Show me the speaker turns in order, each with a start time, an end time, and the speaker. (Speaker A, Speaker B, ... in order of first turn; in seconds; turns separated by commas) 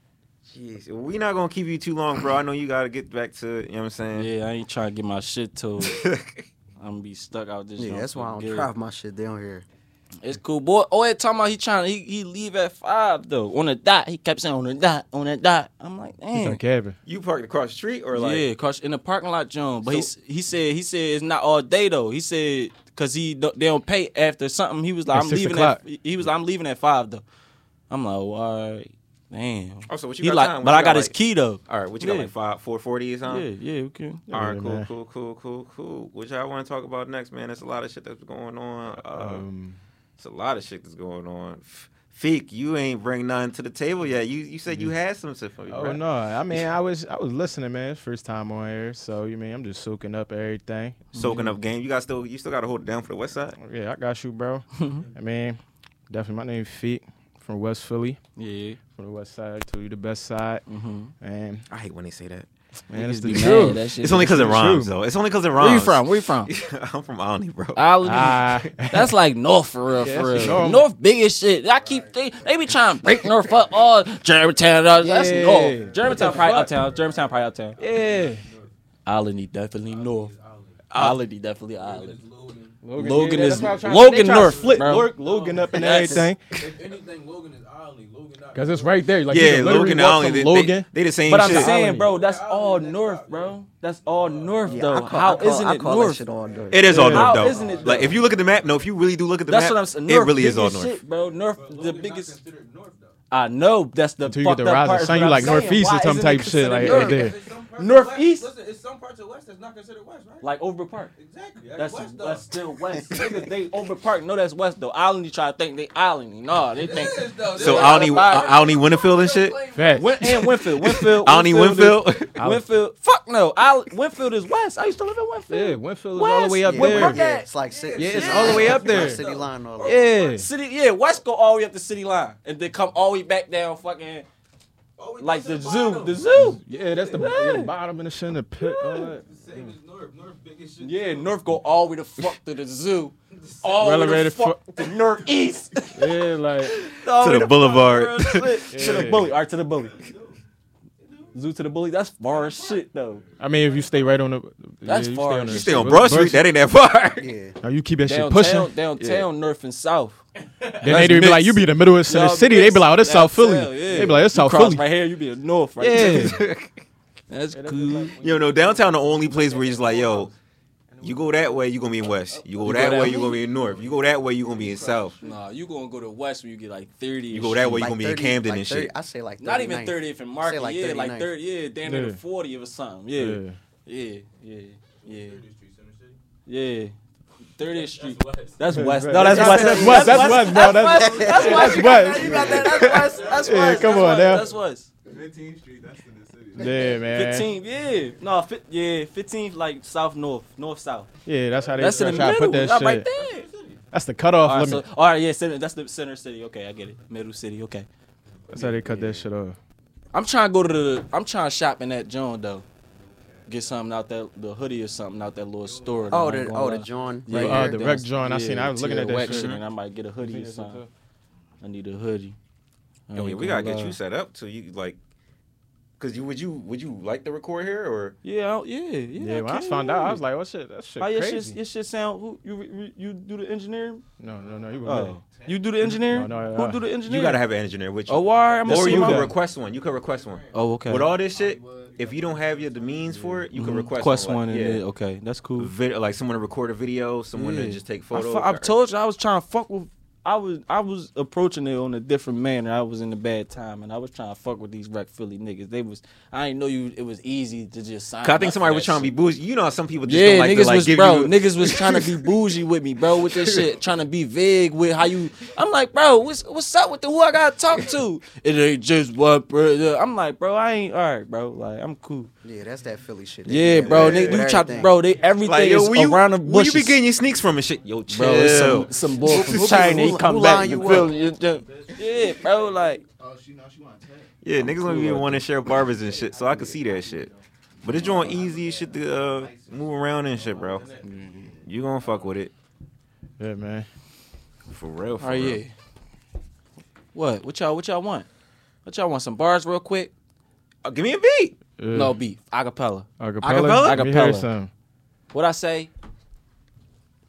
Speaker A: 0.5-4.3, Speaker B: 4.1-6.0, Speaker A: 5.8-6.5, Speaker B: 6.8-8.7, Speaker C: 7.8-9.7, Speaker B: 10.2-16.6, Speaker D: 16.3-17.0, Speaker A: 17.1-18.4, Speaker B: 18.1-27.2, Speaker D: 25.1-25.8, Speaker B: 27.9-32.3, Speaker A: 29.9-31.1, Speaker A: 31.6-33.5, Speaker B: 33.3-34.2, Speaker D: 34.3-34.9, Speaker A: 34.3-39.5, Speaker D: 39.1-39.8, Speaker A: 40.2-46.6, Speaker D: 45.7-51.5, Speaker B: 51.1-51.4, Speaker A: 51.1-53.6, Speaker D: 53.6-58.2, Speaker B: 54.8-55.0, Speaker B: 58.4-58.8, Speaker D: 58.9-60.6, Speaker B: 60.7-61.1, Speaker D: 61.2-61.6, Speaker A: 61.7-62.5, Speaker D: 62.9-64.9, Speaker B: 62.9-64.5, Speaker A: 63.3-68.7, Speaker B: 65.5-66.5, Speaker B: 67.8-77.8, Speaker D: 68.0-69.1, Speaker D: 70.0-70.8, Speaker E: 71.8-72.2, Speaker D: 75.0-76.7, Speaker E: 75.5-78.7, Speaker D: 77.8-78.4, Speaker B: 79.0-80.3, Speaker E: 79.8-80.8, Speaker A: 80.9-81.2, Speaker B: 80.9-82.2, Speaker E: 81.7-89.9, Speaker D: 82.8-86.5, Speaker B: 82.9-85.1, Speaker B: 85.7-86.3, Speaker D: 88.5-92.1, Speaker A: 89.3-91.7, Speaker B: 91.3-96.2, Speaker E: 92.0-94.9, Speaker C: 94.7-97.1, Speaker E: 96.3-98.9, Speaker A: 96.7-101.0, Speaker D: 96.8-97.5, Speaker B: 96.9-98.2, Speaker B: 99.5-102.4, Speaker E: 101.2-103.2, Speaker B: 103.3-108.5, Speaker D: 104.2-107.4, Speaker E: 105.0-105.7, Speaker E: 106.8-110.5, Speaker B: 110.4-111.1, Speaker E: 111.1-113.2, Speaker B: 111.7-118.5, Speaker E: 116.7-120.4, Speaker A: 117.5-119.6, Speaker D: 119.7-120.3, Speaker B: 119.9-127.5, Speaker A: 120.8-122.4, Speaker D: 125.5-127.2, Speaker C: 126.6-130.1, Speaker E: 127.6-130.2, Speaker D: 128.0-129.2, Speaker B: 128.0-129.2, Speaker B: 129.8-134.3, Speaker D: 129.8-130.5, Speaker E: 135.0-136.8, Speaker B: 135.2-137.7, Speaker D: 136.6-139.7, Speaker B: 138.6-139.1, Speaker E: 139.1-141.4, Speaker B: 140.8-146.1, Speaker D: 143.7-144.6, Speaker D: 145.9-146.8, Speaker B: 146.9-150.1, Speaker A: 146.9-149.0, Speaker D: 148.7-149.3, Speaker E: 149.8-150.4, Speaker E: 151.0-151.4, Speaker B: 151.3-153.2, Speaker E: 152.3-154.1, Speaker D: 153.4-156.4, Speaker B: 154.8-155.9, Speaker A: 155.5-157.3, Speaker C: 157.2-157.6, Speaker D: 157.6-158.7, Speaker B: 158.0-160.2, Speaker A: 159.0-159.2, Speaker E: 160.6-161.0, Speaker D: 160.8-164.8, Speaker B: 160.8-166.3, Speaker D: 165.8-166.4, Speaker A: 165.9-166.8, Speaker B: 167.3-168.1, Speaker D: 167.6-168.1, Speaker E: 167.7-170.3, Speaker A: 168.2-170.3, Speaker E: 170.9-175.3, Speaker A: 171.0-175.2, Speaker B: 172.6-173.4, Speaker B: 175.2-177.9, Speaker A: 177.3-178.9, Speaker C: 177.8-181.3, Speaker B: 179.4-185.4, Speaker D: 181.8-182.2, Speaker D: 183.2-183.6, Speaker E: 185.0-186.2, Speaker B: 186.4-187.0, Speaker B: 187.6-194.9, Speaker E: 187.6-194.5, Speaker D: 188.7-194.4, Speaker C: 189.2-192.7, Speaker E: 195.0-197.1, Speaker D: 196.6-197.5, Speaker B: 196.6-201.1, Speaker E: 197.7-198.2, Speaker D: 201.2-203.1, Speaker E: 201.6-203.8, Speaker B: 201.8-203.4, Speaker D: 203.9-204.8, Speaker B: 204.4-207.9, Speaker D: 208.5-209.6, Speaker B: 208.6-209.2, Speaker B: 210.1-212.7, Speaker E: 213.0-213.8, Speaker B: 213.5-220.8, Speaker E: 215.1-216.5, Speaker C: 216.1-217.7, Speaker D: 217.3-219.6, Speaker A: 219.2-219.6, Speaker D: 220.2-220.9, Speaker B: 221.6-222.4, Speaker B: 223.1-224.0, Speaker A: 223.1-225.0, Speaker A: 226.0-228.2, Speaker B: 228.2-230.2, Speaker D: 229.2-231.6, Speaker B: 231.0-234.0, Speaker D: 234.2-235.2, Speaker E: 234.4-236.0, Speaker B: 234.8-237.4, Speaker D: 236.0-236.8, Speaker A: 237.0-244.8, Speaker B: 238.1-239.3, Speaker E: 238.2-243.5, Speaker D: 238.7-239.3, Speaker B: 240.5-241.1, Speaker B: 243.5-245.7, Speaker A: 245.6-248.7, Speaker B: 247.3-259.1, Speaker A: 258.2-262.3, Speaker B: 260.0-272.3, Speaker A: 263.2-263.6, Speaker C: 272.4-274.9, Speaker B: 273.4-277.0, Speaker A: 273.9-274.5, Speaker A: 275.4-280.1, Speaker B: 278.1-283.0, Speaker E: 278.5-279.6, Speaker C: 279.3-281.2, Speaker E: 280.8-284.4, Speaker A: 284.4-287.3, Speaker B: 284.6-285.4, Speaker E: 285.7-292.3, Speaker A: 287.8-290.9, Speaker B: 291.0-291.5, Speaker A: 291.6-292.5, Speaker D: 293.4-293.9, Speaker A: 294.7-295.6, Speaker B: 295.2-295.7, Speaker B: 297.1-298.3, Speaker B: 298.8-300.1, Speaker A: 300.8-301.6, Speaker D: 301.8-302.1, Speaker B: 301.9-303.1, Speaker D: 303.2-304.7, Speaker A: 303.4-304.0, Speaker B: 303.8-304.5, Speaker B: 305.3-305.9